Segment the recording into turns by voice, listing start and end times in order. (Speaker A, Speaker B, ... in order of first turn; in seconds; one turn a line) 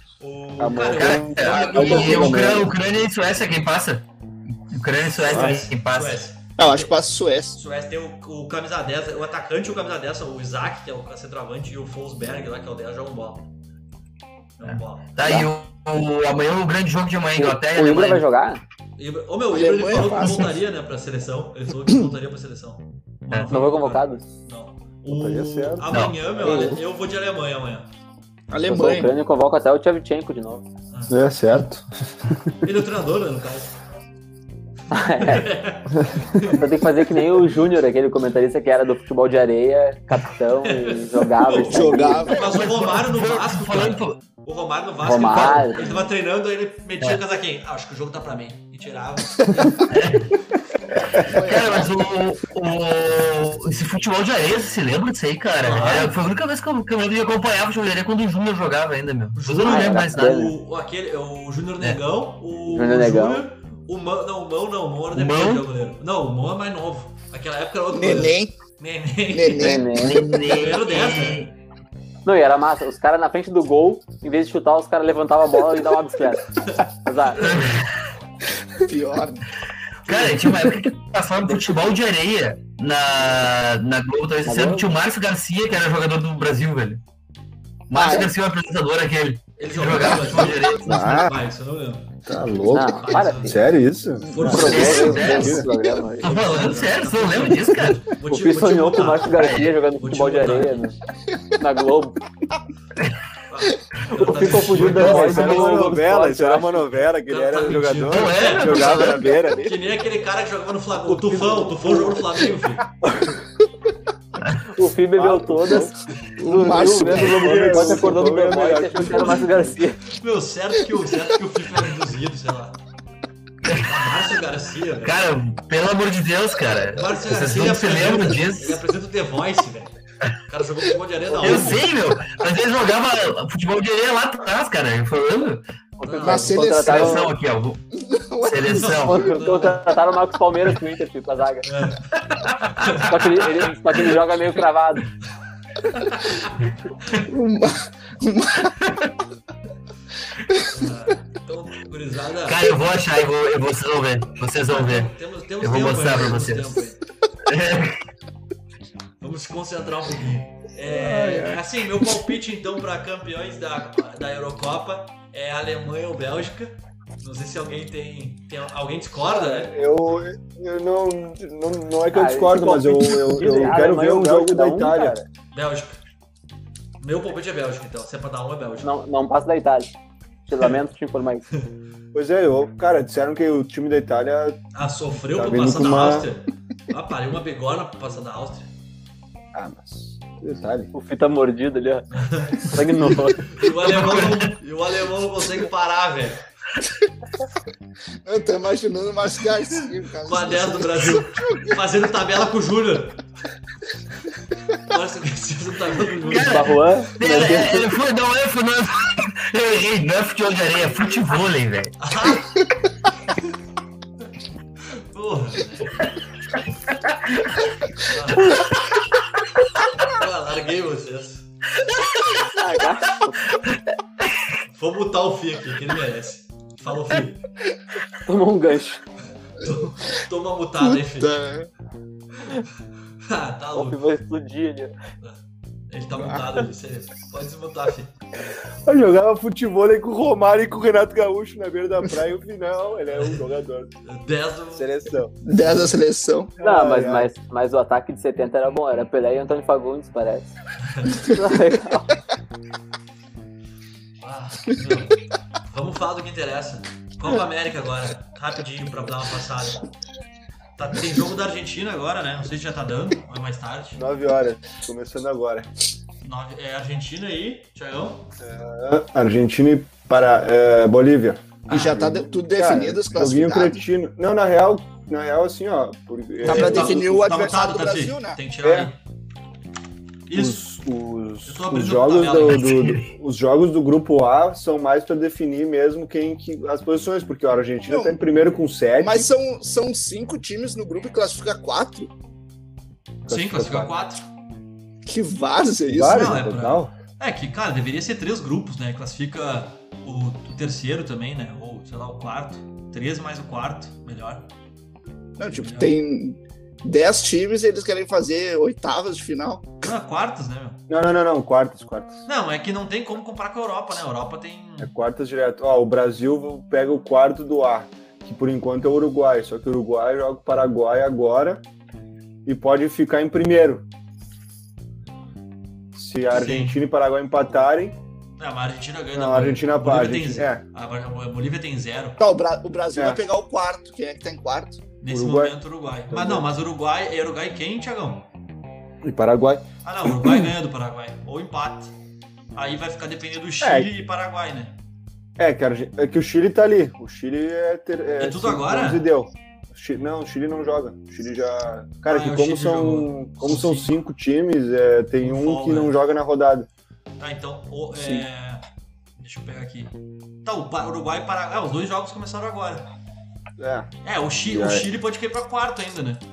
Speaker A: 0.2-2.6
Speaker B: 0.6-2.7
Speaker C: 0.8-4.0
Speaker D: 1.8-2.6
Speaker C: 4.7-6.2
Speaker A: 5.0-6.9
Speaker B: 5.3-5.6
Speaker E: 6.6-7.6
Speaker A: 7.5-13.5
Speaker A: 14.6-15.1
Speaker C: 14.6-18.2
Speaker D: 15.2-15.5
Speaker D: 17.4-18.6
Speaker A: 19.0-27.9
Speaker E: 19.5-20.6
Speaker C: 23.3-23.5
Speaker D: 23.5-24.2
Speaker B: 25.1-25.9
Speaker C: 25.9-26.2
Speaker D: 26.4-26.8
Speaker E: 28.5-29.1
Speaker D: 28.6-30.7
Speaker A: 30.9-31.2
Speaker B: 31.1-32.5
Speaker A: 32.6-33.7
Speaker D: 34.9-35.4
Speaker A: 35.1-37.5
Speaker D: 36.4-42.3
Speaker A: 40.6-50.1
Speaker E: 41.7-42.9
Speaker C: 42.5-44.2
Speaker D: 45.0-45.9
Speaker C: 49.9-50.3
Speaker E: 51.2-52.0
Speaker C: 51.3-60.3
Speaker A: 55.5-56.2
Speaker A: 59.4-69.8
Speaker D: 59.6-60.5
Speaker D: 62.7-63.5
Speaker C: 65.1-65.6
Speaker E: 67.9-68.5
Speaker E: 69.3-70.4
Speaker D: 69.5-70.3
Speaker C: 69.9-71.5
Speaker A: 70.4-71.5
Speaker D: 72.2-77.6
Speaker C: 77.4-77.9
Speaker E: 78.8-79.5
Speaker C: 80.0-87.0
Speaker D: 84.4-84.9
Speaker C: 87.9-91.1
Speaker E: 87.9-88.3
Speaker A: 89.6-92.2
Speaker B: 90.8-91.3
Speaker B: 92.2-95.7
Speaker D: 92.7-93.6
Speaker A: 92.8-95.5
Speaker D: 94.3-96.8
Speaker C: 94.7-95.7
Speaker C: 96.2-98.1
Speaker A: 96.2-99.3
Speaker D: 98.2-101.0
Speaker C: 99.3-99.8
Speaker A: 99.8-100.8
Speaker D: 101.5-102.2
Speaker A: 103.5-105.8
Speaker D: 104.1-106.9
Speaker B: 104.8-109.8
Speaker A: 107.2-112.9
Speaker C: 108.1-109.3
Speaker E: 108.9-109.6
Speaker D: 111.0-112.2
Speaker D: 113.0-113.4
Speaker D: 114.6-120.0
Speaker B: 115.1-116.0
Speaker E: 116.4-118.1
Speaker B: 116.5-119.4
Speaker A: 118.9-122.8
Speaker C: 123.6-123.9
Speaker A: 123.7-125.2
Speaker C: 125.0-128.8
Speaker A: 126.9-129.9
Speaker A: 130.5-131.8
Speaker C: 131.4-135.6
Speaker D: 136.0-137.3
Speaker A: 136.0-136.6
Speaker E: 136.2-137.3
Speaker C: 136.8-137.8
Speaker E: 137.9-139.2
Speaker C: 138.4-139.2
Speaker A: 138.7-140.0
Speaker D: 139.0-141.7
Speaker A: 141.6-142.2
Speaker C: 142.2-143.1
Speaker A: 142.7-143.4
Speaker D: 142.9-145.1
Speaker A: 145.9-146.6
Speaker E: 147.2-148.7
Speaker A: 150.6-152.7
Speaker C: 152.4-156.8
Speaker A: 154.7-157.0
Speaker C: 157.4-158.0
Speaker A: 159.2-169.7
Speaker B: 160.8-161.6
Speaker B: 169.2-175.2
Speaker D: 172.1-175.1
Speaker A: 175.5-176.0
Speaker A: 177.0-178.9
Speaker D: 178.8-179.9
Speaker D: 180.5-181.4
Speaker B: 182.1-184.6
Speaker A: 184.7-188.7
Speaker B: 185.2-186.3
Speaker B: 189.5-190.9
Speaker D: 190.9-193.5
Speaker A: 192.1-192.9
Speaker A: 193.4-196.4
Speaker C: 193.8-194.5
Speaker E: 198.2-201.7
Speaker A: 200.2-203.2
Speaker A: 204.9-206.8
Speaker C: 206.2-211.9
Speaker D: 206.3-207.9
Speaker A: 212.0-212.6
Speaker A: 214.9-216.0
Speaker A: 218.0-218.6
Speaker A: 220.0-221.4
Speaker C: 221.8-222.4
Speaker D: 222.5-223.5
Speaker A: 224.7-227.4
Speaker D: 228.2-229.0
Speaker A: 229.5-231.4
Speaker E: 231.1-231.7
Speaker A: 232.4-232.7
Speaker A: 233.2-234.0
Speaker D: 233.7-234.9
Speaker A: 235.2-238.1
Speaker E: 236.1-236.4
Speaker B: 238.8-243.9
Speaker A: 243.2-243.4
Speaker A: 244.0-245.1
Speaker B: 244.7-245.3
Speaker E: 245.4-246.5
Speaker B: 246.6-247.3
Speaker D: 246.6-250.6
Speaker A: 250.8-251.3
Speaker D: 251.1-252.1
Speaker A: 254.2-259.9
Speaker A: 260.8-264.0
Speaker B: 263.9-265.7
Speaker A: 266.2-268.3
Speaker B: 268.4-277.4
Speaker E: 271.7-273.8
Speaker A: 271.7-272.0
Speaker A: 276.4-279.0
Speaker E: 276.4-278.4
Speaker B: 278.6-278.9
Speaker A: 280.3-280.6
Speaker B: 280.3-289.3
Speaker A: 281.4-282.8
Speaker C: 282.6-283.0
Speaker E: 287.9-288.1
Speaker E: 289.0-292.1
Speaker B: 293.3-293.9
Speaker A: 293.3-294.2
Speaker E: 295.1-296.2
Speaker B: 295.9-296.9
Speaker A: 296.0-304.5
Speaker E: 305.4-309.7
Speaker A: 305.5-305.9
Speaker A: 309.8-310.8
Speaker B: 310.9-312.2
Speaker A: 312.2-314.9
Speaker B: 314.8-321.6
Speaker B: 322.4-323.9
Speaker B: 325.9-328.0
Speaker A: 326.3-326.8
Speaker A: 328.4-332.2
Speaker B: 329.1-330.6
Speaker E: 332.2-334.8
Speaker B: 332.9-333.2
Speaker A: 335.0-338.3
Speaker B: 335.1-335.6
Speaker B: 336.1-336.5
Speaker B: 339.0-339.6
Speaker A: 339.8-341.9
Speaker A: 342.5-344.8
Speaker B: 343.6-343.9
Speaker B: 345.4-356.7
Speaker A: 348.2-349.1
Speaker A: 352.1-353.9
Speaker A: 355.2-356.0
Speaker A: 357.2-358.6
Speaker B: 357.9-358.2
Speaker A: 359.2-359.9
Speaker A: 360.4-362.9
Speaker B: 363.6-363.9
Speaker A: 364.0-366.2
Speaker B: 364.5-364.9